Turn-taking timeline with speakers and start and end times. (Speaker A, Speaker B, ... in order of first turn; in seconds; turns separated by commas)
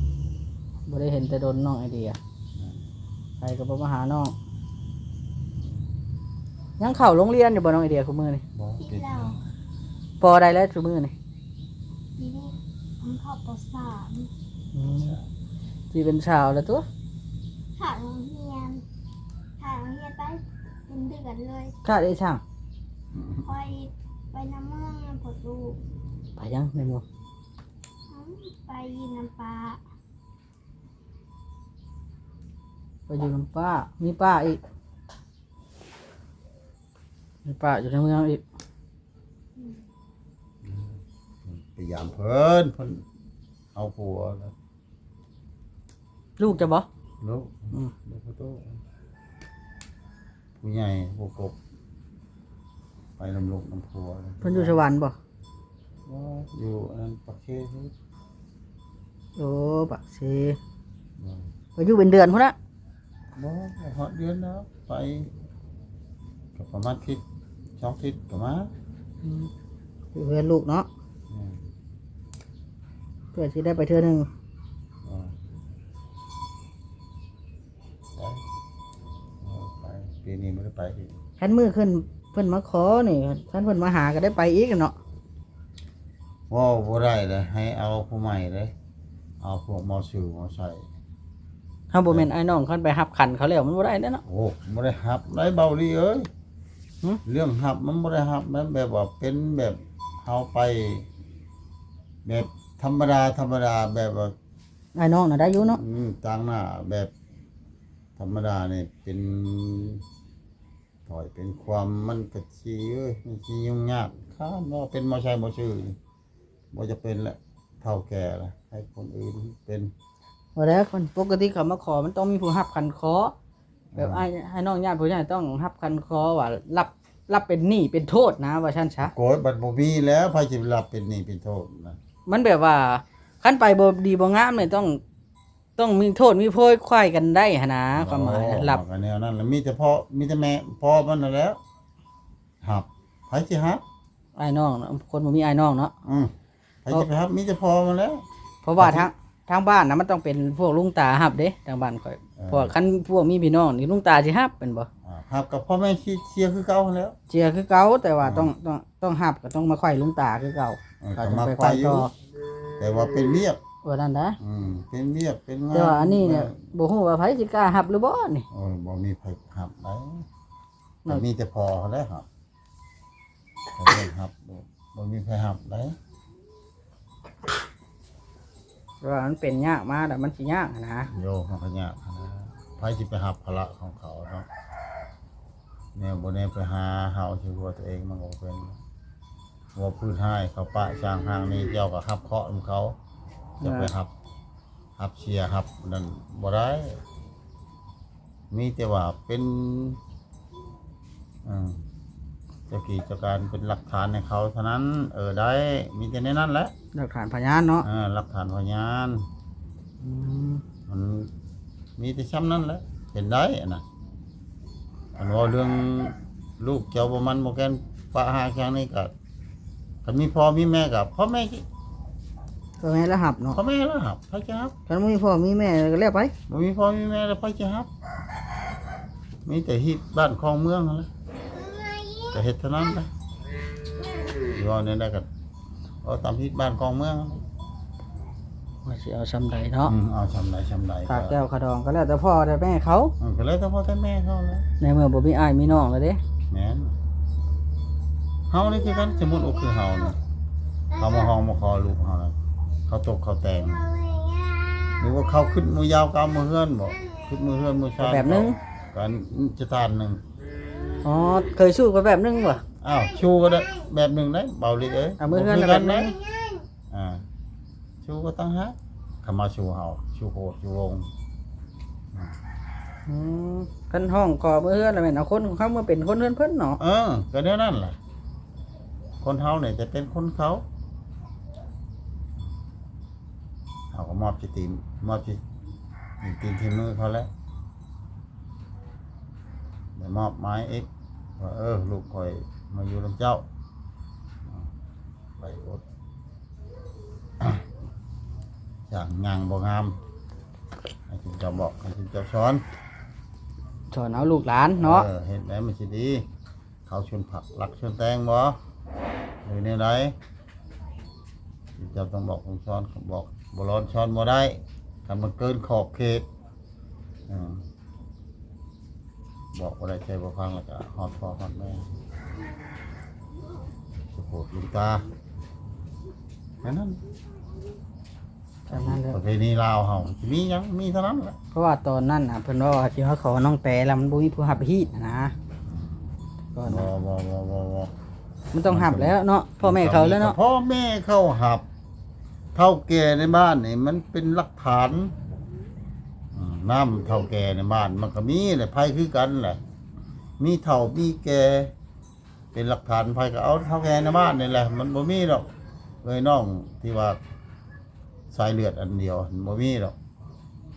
Speaker A: 0.9-2.2, Speaker B: 2.5-2.9, Speaker A: 3.4-4.3, Speaker A: 6.8-8.4, Speaker B: 8.5-9.5, Speaker C: 8.8-9.4, Speaker A: 10.2-11.1, Speaker C: 12.2-14.3, Speaker A: 14.7-15.2, Speaker B: 14.8-15.3, Speaker A: 15.9-16.9, Speaker C: 17.8-18.8, Speaker C: 19.6-21.7, Speaker A: 21.8-22.4, Speaker B: 23.1-23.5, Speaker C: 23.4-25.8, Speaker A: 26.4-27.0, Speaker C: 28.1-29.8, Speaker A: 33.1-34.6, Speaker A: 37.4-38.4, Speaker B: 40.6-43.0, Speaker B: 43.7-44.5, Speaker A: 46.4-46.9, Speaker B: 47.2-48.8, Speaker B: 50.6-51.6, Speaker B: 53.2-54.8, Speaker A: 54.4-55.1, Speaker B: 56.0-57.9, Speaker A: 59.4-60.6, Speaker B: 61.2-61.5, Speaker A: 61.8-62.5, Speaker B: 63.4-65.3, Speaker B: 66.5-67.2, Speaker B: 67.8-68.7, Speaker A: 69.2-69.5, Speaker A: 70.1-70.9, Speaker B: 71.3-71.6, Speaker A: 73.3-74.3, Speaker B: 75.0-75.3, Speaker B: 78.2-78.4, Speaker B: 79.4-81.2, Speaker A: 81.4-85.0, Speaker B: 86.5-88.7, Speaker B: 89.4-90.8, Speaker A: 91.9-94.2, Speaker B: 94.2-96.3, Speaker B: 97.2-101.1, Speaker B: 102.2-104.3, Speaker A: 104.9-105.8, Speaker B: 105.6-107.1, Speaker B: 108.2-110.0, Speaker B: 111.0-116.0, Speaker B: 116.7-119.9, Speaker A: 120.5-123.3, Speaker B: 123.9-124.3, Speaker A: 124.0-129.1, Speaker B: 129.0-132.0, Speaker A: 132.3-135.0, Speaker A: 135.8-138.8, Speaker B: 137.9-141.6, Speaker B: 142.6-143.8, Speaker A: 144.3-145.9, Speaker B: 146.0-146.3, Speaker B: 146.8-148.2, Speaker A: 148.6-154.9, Speaker B: 148.8-149.1, Speaker B: 152.4-152.7, Speaker B: 155.0-157.1, Speaker A: 157.3-162.1, Speaker B: 158.2-158.5, Speaker B: 161.0-162.1, Speaker B: 162.8-163.6, Speaker A: 163.8-164.4, Speaker B: 164.4-166.6, Speaker A: 165.7-168.4, Speaker B: 168.5-170.2, Speaker B: 171.1-172.3, Speaker B: 173.7-176.0, Speaker A: 179.0-181.1, Speaker B: 181.1-184.5, Speaker B: 185.9-188.8, Speaker B: 189.8-192.9, Speaker A: 193.6-193.9, Speaker B: 193.6-194.1, Speaker B: 195.0-197.0, Speaker B: 198.5-200.0, Speaker B: 201.4-201.8, Speaker B: 202.7-206.7, Speaker A: 206.9-207.9, Speaker B: 207.8-209.3, Speaker A: 210.0-210.6, Speaker B: 210.9-211.3, Speaker B: 212.0-213.8, Speaker B: 215.2-219.1, Speaker B: 220.0-221.7, Speaker A: 222.8-223.6, Speaker B: 223.5-224.7, Speaker A: 224.9-226.3, Speaker B: 226.5-227.9, Speaker B: 229.4-231.1, Speaker B: 232.3-233.1, Speaker B: 234.5-235.3, Speaker B: 236.0-237.4, Speaker A: 238.8-239.9, Speaker B: 239.8-241.4, Speaker A: 241.1-243.1, Speaker B: 243.2-244.7, Speaker A: 244.8-246.2, Speaker B: 246.5-246.9, Speaker B: 248.5-250.2, Speaker B: 250.9-252.3, Speaker B: 252.9-253.9, Speaker C: 254.1-254.8, Speaker B: 254.9-260.2, Speaker A: 258.0-258.6, Speaker A: 261.0-262.6, Speaker B: 262.8-266.1, Speaker A: 265.2-266.2, Speaker C: 266.3-266.6, Speaker B: 266.9-267.2, Speaker B: 268.0-271.1, Speaker A: 273.1-276.8, Speaker B: 276.8-278.0, Speaker B: 279.2-280.6, Speaker B: 283.9-285.4, Speaker B: 286.2-287.3, Speaker B: 289.9-293.4, Speaker B: 295.4-295.8, Speaker B: 298.9-300.0, Speaker B: 301.1-302.6, Speaker A: 303.9-305.1, Speaker B: 304.8-306.2, Speaker B: 306.9-308.6, Speaker B: 309.4-310.1, Speaker B: 311.8-316.3, Speaker B: 317.3-317.7, Speaker B: 319.5-321.9, Speaker B: 324.1-325.1, Speaker B: 326.6-327.0, Speaker A: 328.6-329.2, Speaker B: 328.7-331.4, Speaker A: 331.5-335.3, Speaker B: 335.7-336.1, Speaker A: 336.5-336.9, Speaker B: 336.6-337.9, Speaker A: 338.5-340.4, Speaker B: 338.6-341.6, Speaker B: 342.5-345.1, Speaker B: 346.3-349.6, Speaker B: 350.4-351.7, Speaker B: 352.5-355.5, Speaker B: 356.0-357.2, Speaker B: 358.3-359.9